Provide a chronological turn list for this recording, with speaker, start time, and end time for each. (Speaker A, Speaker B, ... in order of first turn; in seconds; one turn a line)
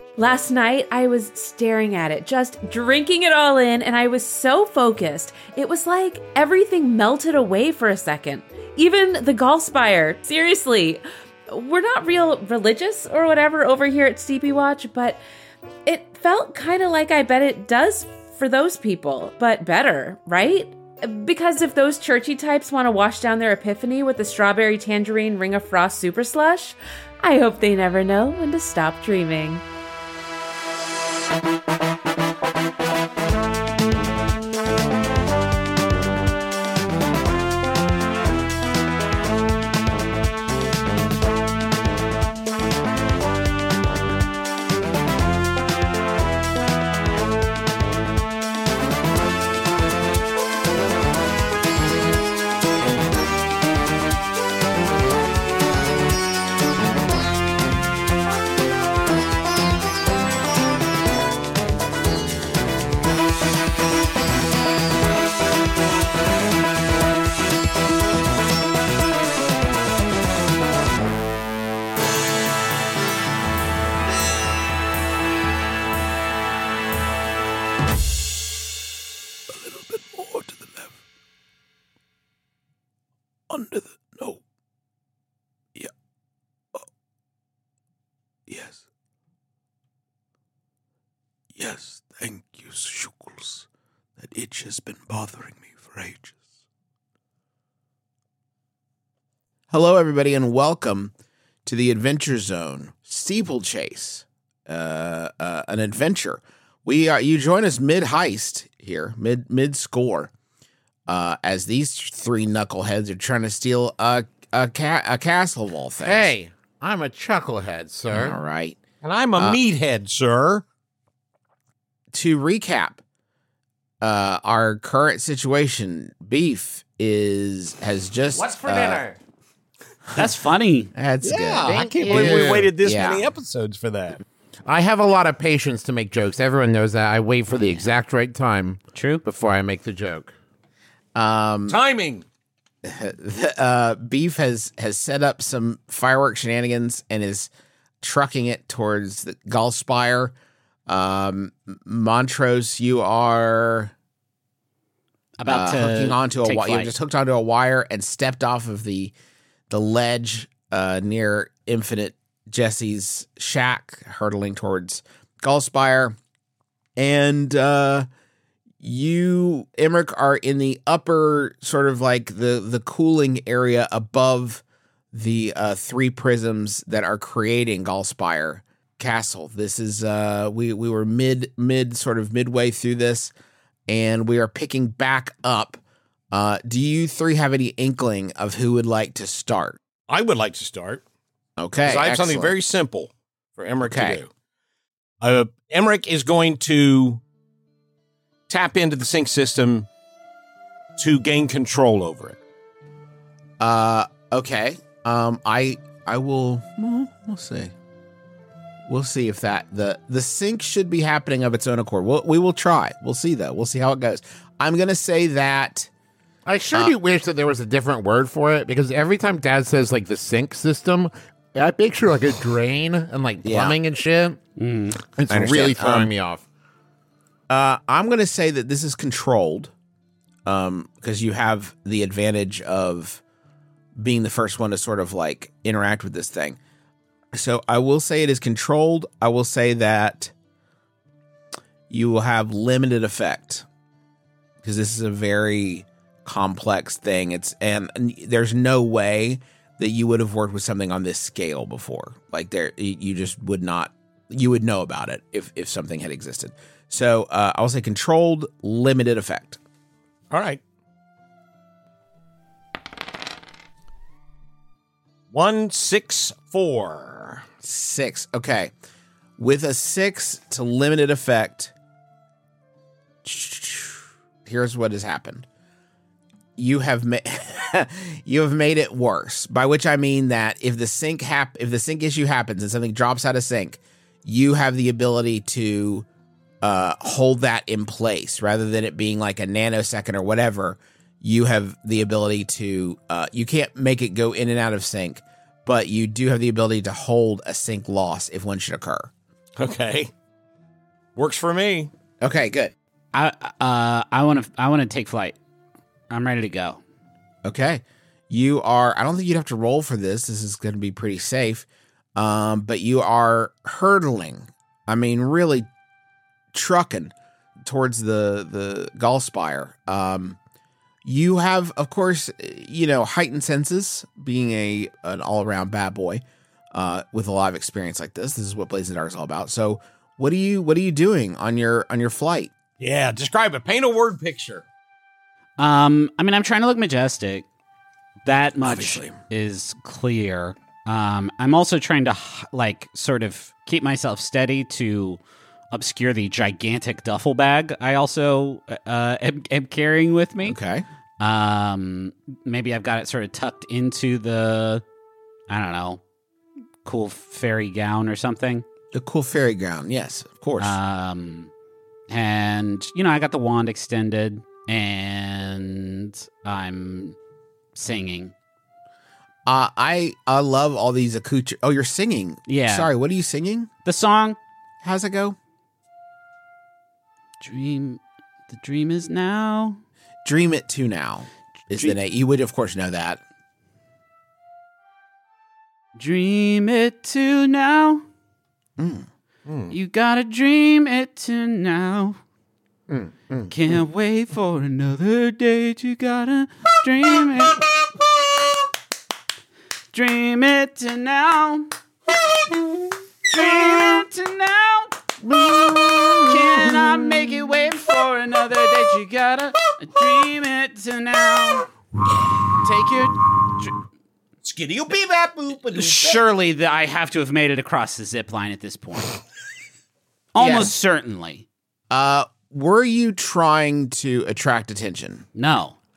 Speaker A: 0.2-15.2
Speaker A: 15.9-29.6
Speaker B: 79.5-80.9
Speaker B: 83.5-84.4
Speaker B: 88.5-88.8
Speaker B: 91.5-93.7
Speaker B: 94.2-96.4
Speaker B: 99.7-101.1
Speaker B: 101.7-110.3
Speaker B: 111.1-116.3
Speaker C: 116.0-118.4
Speaker B: 118.1-118.8
Speaker D: 119.0-120.6
Speaker B: 122.1-123.0
Speaker B: 124.0-129.0
Speaker C: 128.3-129.2
Speaker E: 130.2-130.9
Speaker B: 130.9-133.2
Speaker D: 131.2-134.2
Speaker C: 131.7-132.7
Speaker C: 134.7-140.3
Speaker E: 138.9-139.2
Speaker B: 141.2-141.8
Speaker D: 141.7-142.2
Speaker B: 142.8-147.5
Speaker B: 148.0-150.3
Speaker B: 150.9-153.9
Speaker E: 155.4-157.0
Speaker B: 155.5-159.1
Speaker B: 159.7-166.2
Speaker B: 167.0-168.1
Speaker B: 168.8-183.3
Speaker B: 183.9-189.8
Speaker D: 190.1-191.0
Speaker B: 191.6-192.6
Speaker D: 191.8-194.3
Speaker B: 193.8-194.2
Speaker D: 195.2-197.2
Speaker D: 198.5-199.9
Speaker D: 201.0-202.4
Speaker B: 203.6-207.7
Speaker B: 208.9-215.9
Speaker C: 216.5-224.4
Speaker B: 223.4-223.8
Speaker E: 224.6-225.0
Speaker C: 225.2-226.4
Speaker B: 225.3-226.1
Speaker B: 227.5-229.7
Speaker B: 230.5-233.2
Speaker B: 234.0-236.6
Speaker B: 237.3-240.3
Speaker B: 241.9-243.7
Speaker B: 244.6-259.6
Speaker D: 260.3-260.6
Speaker D: 265.3-267.4
Speaker B: 267.6-268.7
Speaker B: 269.4-271.7
Speaker B: 273.2-275.5
Speaker B: 276.6-286.1
Speaker B: 286.6-299.1
Speaker D: 299.6-300.1
Speaker D: 301.2-301.9
Speaker B: 302.2-302.7
Speaker E: 303.1-305.4
Speaker E: 306.1-306.8
Speaker B: 307.4-315.7
Speaker B: 316.5-320.4
Speaker B: 321.1-332.5
Speaker D: 332.8-334.6
Speaker E: 335.6-337.5
Speaker E: 338.2-345.2
Speaker D: 338.6-339.2
Speaker E: 345.7-350.6
Speaker B: 350.4-350.9
Speaker E: 351.2-354.8
Speaker E: 355.5-356.0
Speaker E: 356.9-358.6
Speaker B: 358.9-360.8
Speaker E: 360.6-361.5
Speaker E: 362.1-367.2
Speaker E: 367.8-368.3
Speaker B: 369.5-373.7
Speaker E: 372.5-372.9
Speaker E: 373.9-374.4
Speaker B: 374.8-375.4
Speaker E: 377.4-379.8
Speaker B: 380.2-383.2
Speaker E: 386.0-388.0
Speaker B: 388.8-389.1
Speaker D: 389.5-389.7
Speaker E: 389.7-392.2
Speaker C: 392.9-393.5
Speaker E: 393.5-397.6
Speaker E: 399.9-401.7
Speaker E: 403.3-405.0
Speaker C: 405.3-406.9
Speaker E: 406.2-411.7
Speaker E: 412.6-413.8
Speaker D: 414.4-416.2
Speaker E: 415.7-419.2
Speaker E: 420.3-421.5
Speaker B: 420.4-420.7
Speaker B: 421.9-425.3
Speaker E: 425.4-425.8